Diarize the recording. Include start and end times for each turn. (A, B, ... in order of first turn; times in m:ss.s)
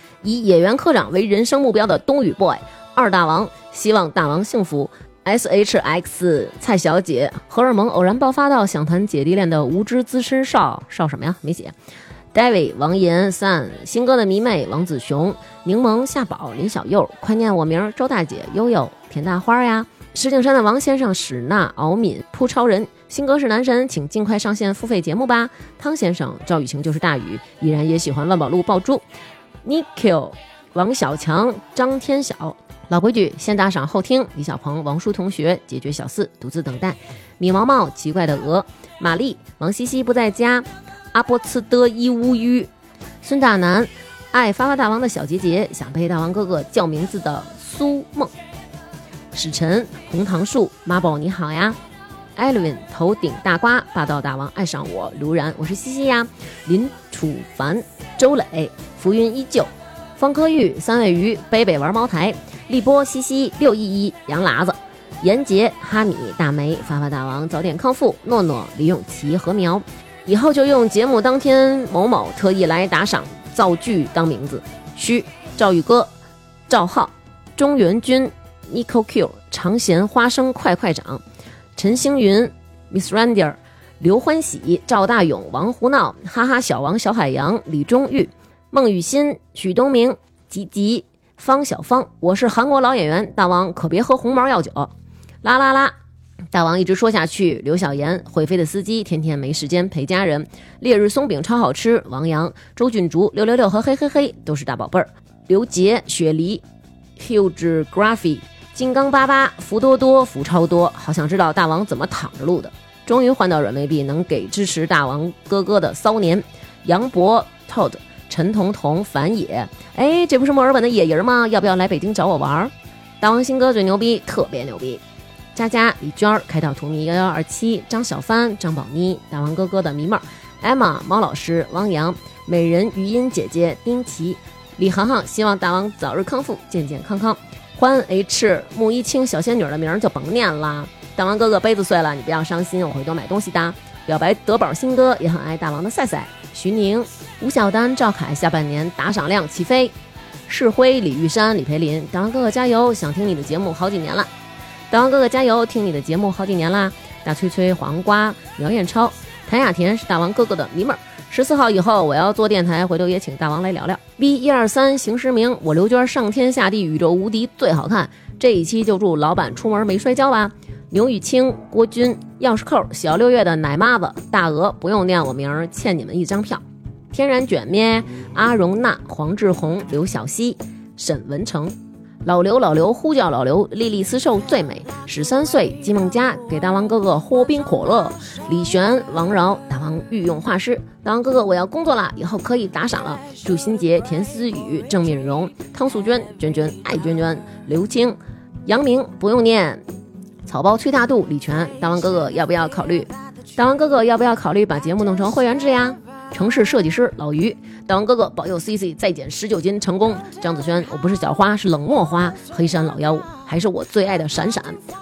0:00.2-0:11.7 A
0:12.3-0:29.0 A
0:29.6-0:42.7 A
0:43.2-0:48.3 A
0:49.3-0:51.8 A
0:52.4-1:16.1 A
1:16.7-1:21.2 A
1:21.8-1:34.9 A
1:35.4-1:35.9 A
1:36.5-1:46.6 A
1:47.2-2:05.0 A
2:05.5-2:29.9 A
2:30.5-2:34.3 A
2:34.9-3:19.8 A
3:20.4-3:34.8 A